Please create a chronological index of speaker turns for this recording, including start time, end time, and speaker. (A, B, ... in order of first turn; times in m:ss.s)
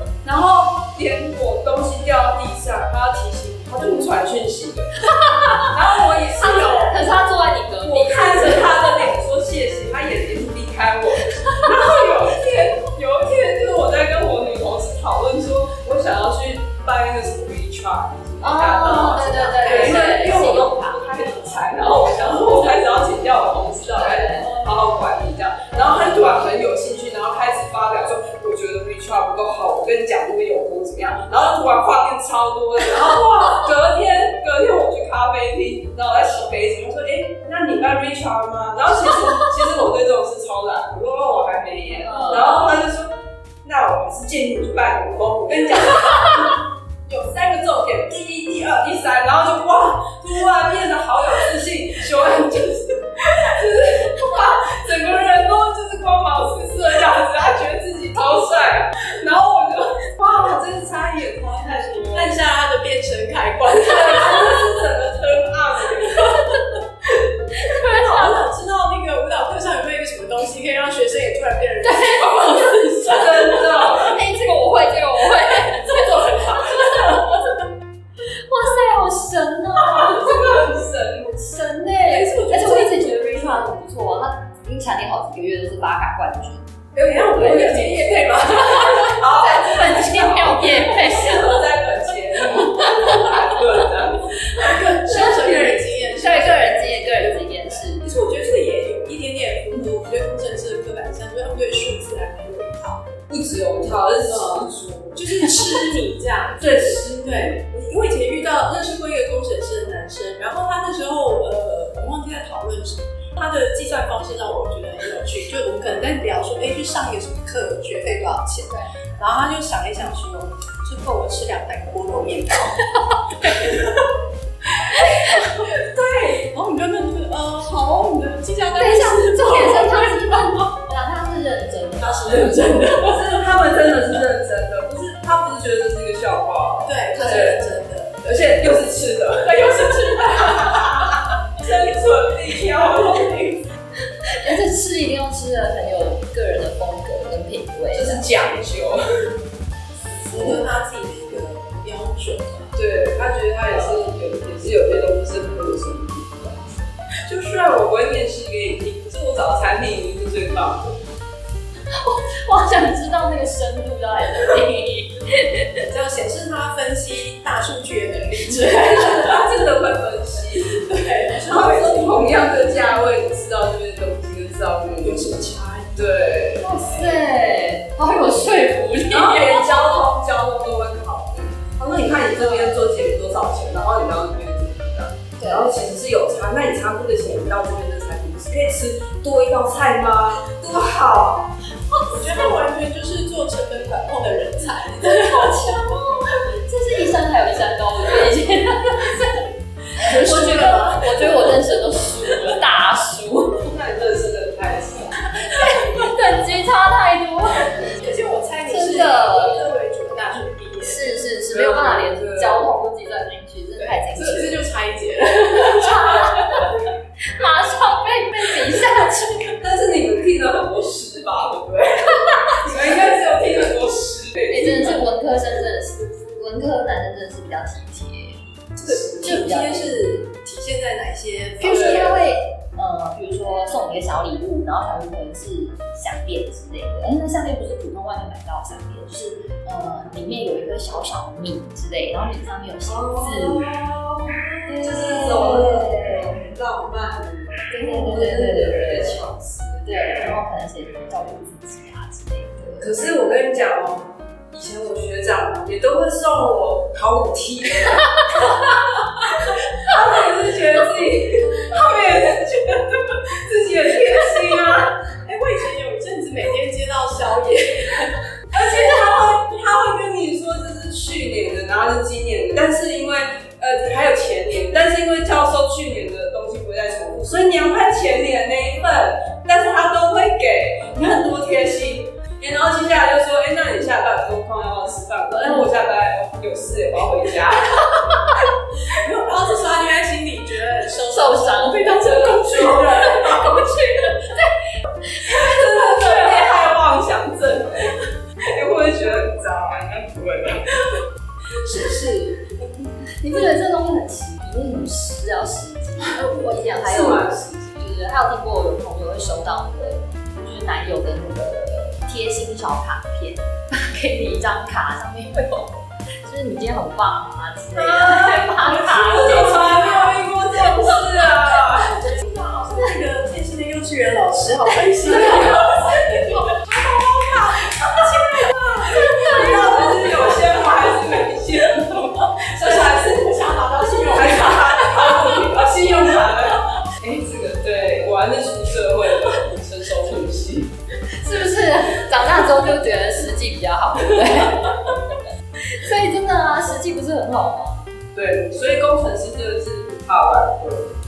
0:00.2-0:07.0 A
0:05.1-0:05.8 B
0:06.3-0:09.0 B
0:07.8-1:02.4 A
0:18.4-0:21.6 B
0:18.8-0:20.6 C
0:23.8-0:24.6 B
0:42.0-0:42.6 B
1:02.1-1:04.6 C
1:03.8-1:06.4 A
1:07.5-1:08.4 B
1:07.7-1:14.1 C
1:11.8-1:17.6 B
1:13.0-1:14.2 A
1:15.8-1:17.4 C
1:18.2-1:20.7 B
1:19.8-1:21.3 A
1:21.2-1:26.6 B
1:22.1-1:23.7 C
1:26.9-1:29.2 C
1:27.3-1:35.8 A
1:27.3-1:27.9 B
1:28.5-1:31.7 B
1:32.7-1:33.4 B
1:34.5-1:43.1 C
1:35.0-1:38.0 B
1:43.3-1:45.4 A
1:44.3-2:04.1 C
1:46.6-1:47.6 A
2:04.6-2:10.8 C
2:08.7-2:12.9 B
2:12.0-2:13.4 C
2:12.9-2:17.6 A
2:16.8-2:18.2 C
2:17.1-2:17.5 B
2:18.2-2:23.7 A
2:19.4-2:21.4 C
2:24.3-2:28.3 B
2:27.9-2:29.3 A
2:30.0-2:32.8 C
2:30.3-2:30.6 A
2:32.7-2:41.0 A
2:33.7-2:34.0 C
2:41.9-2:45.8 B
2:45.8-2:49.6 C
2:48.7-2:50.8 A
2:50.6-2:52.6 C
2:51.4-2:56.7 A
2:55.0-2:56.1 C
2:56.6-3:00.0 B
2:59.1-3:11.6 A
3:02.3-3:02.8 B
3:05.4-3:05.8 B
3:12.0-3:12.4 B
3:12.1-3:15.8 C
3:15.0-3:23.7 B
3:20.0-3:21.5 C
3:23.6-3:25.4 A
3:25.3-3:28.0 B
3:27.8-3:31.3 C
3:28.7-3:29.7 B
3:30.8-3:34.6 B
3:31.5-3:32.7 A
3:33.8-3:36.8 C
3:35.5-3:39.6 B
3:39.6-3:45.0 A
3:42.6-3:43.7 C
3:44.5-3:48.4 B
3:48.8-3:52.2 C
3:48.8-3:49.4 A
3:49.2-3:50.0 B
3:51.6-4:03.7 B
3:51.6-3:52.1 A
4:02.8-4:10.3 A
4:04.7-4:06.4 B
4:07.7-4:09.2 B
4:09.8-4:13.0 B
4:12.8-4:25.0 A
4:25.2-4:29.4 C
4:28.5-4:48.0 A
4:47.8-4:48.2 B
4:48.9-4:53.3 C
4:51.0-4:56.7 B
4:51.9-4:53.6 A
4:55.2-5:00.9 A
5:01.6-5:02.4 A
5:03.2-5:19.9 B
5:06.7-5:07.8 A
5:17.8-5:31.0 C
5:17.9-5:22.1 A
5:25.2-5:25.6 A
5:27.5-5:28.0 A
5:28.8-5:30.0 B
5:29.2-5:33.3 A
5:32.5-5:36.7 C
5:34.0-5:40.7 A
5:41.1-5:44.9 B
5:45.6-5:47.9 B
5:48.1-5:51.0 A